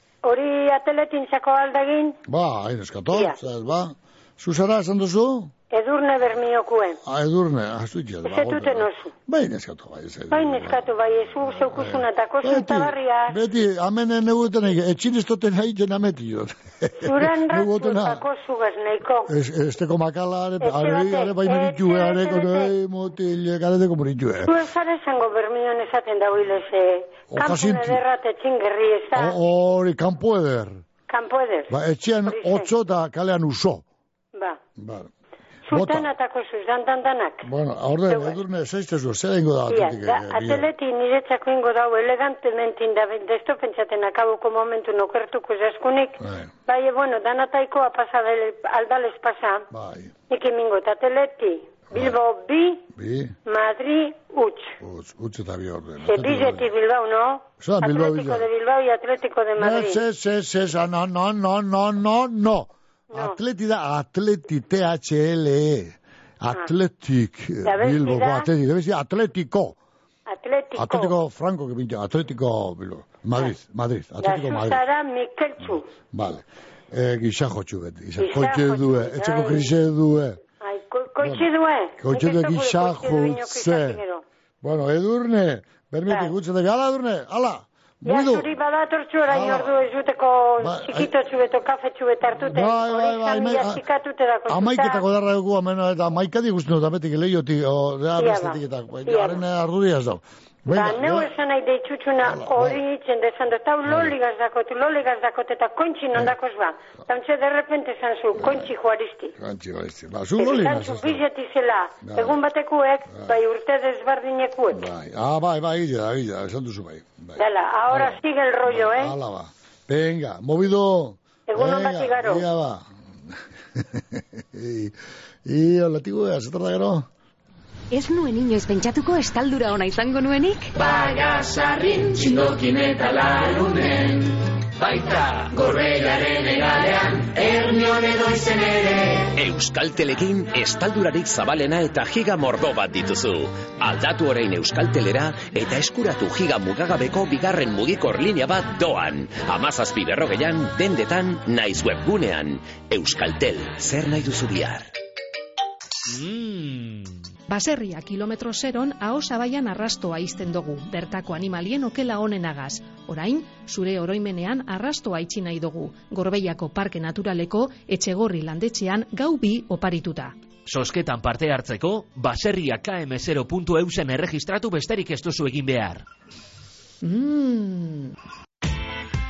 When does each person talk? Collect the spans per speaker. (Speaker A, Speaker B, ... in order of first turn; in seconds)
Speaker A: 0.2-2.1, 5.7-7.0, 8.2-9.1, 10.3-13.3, 17.0-19.3, 20.6-22.7, 24.5-29.3, 31.1-31.7, 32.3-32.6, 35.7-37.4, 38.1-38.4, 39.7-49.6, 50.3-52.8, 53.5-54.7, 56.0-60.0, 67.7-68.5, 70.3-71.1, 74.2-75.8, 78.2-79.6, 80.6-84.2, 88.0-95.0, 98.2-99.4, 100.7-109.3, 110.4-114.8, 117.4-119.1, 121.5-122.4
Speaker B: 2.2-5.5, 7.0-10.8, 11.4-18.2, 19.3-24.6, 27.3-28.0, 29.1-30.8, 31.7-33.8, 34.8-35.1, 35.7-36.1, 37.4-40.7, 46.2-46.5, 49.7-50.1, 51.9-52.2, 52.9-53.4, 54.8-56.7, 57.6-58.5, 59.6-69.8, 70.7-74.8, 75.6-80.4, 81.2-81.5, 82.0-84.0, 84.6-88.5, 89.2-89.8, 90.6-91.1, 92.3-93.8, 94.5-101.3, 102.2-102.8, 103.8-104.1, 108.4-108.7, 109.4-111.2, 112.0-112.4, 114.7-122.8, 123.8-127.1
Speaker C: 127.9-130.7
Speaker D: 131.2-132.6, 137.5-138.4
Speaker E: 139.3-154.9
Speaker F: 157.5-170.3, 177.0-178.1
Speaker G: 170.7-176.0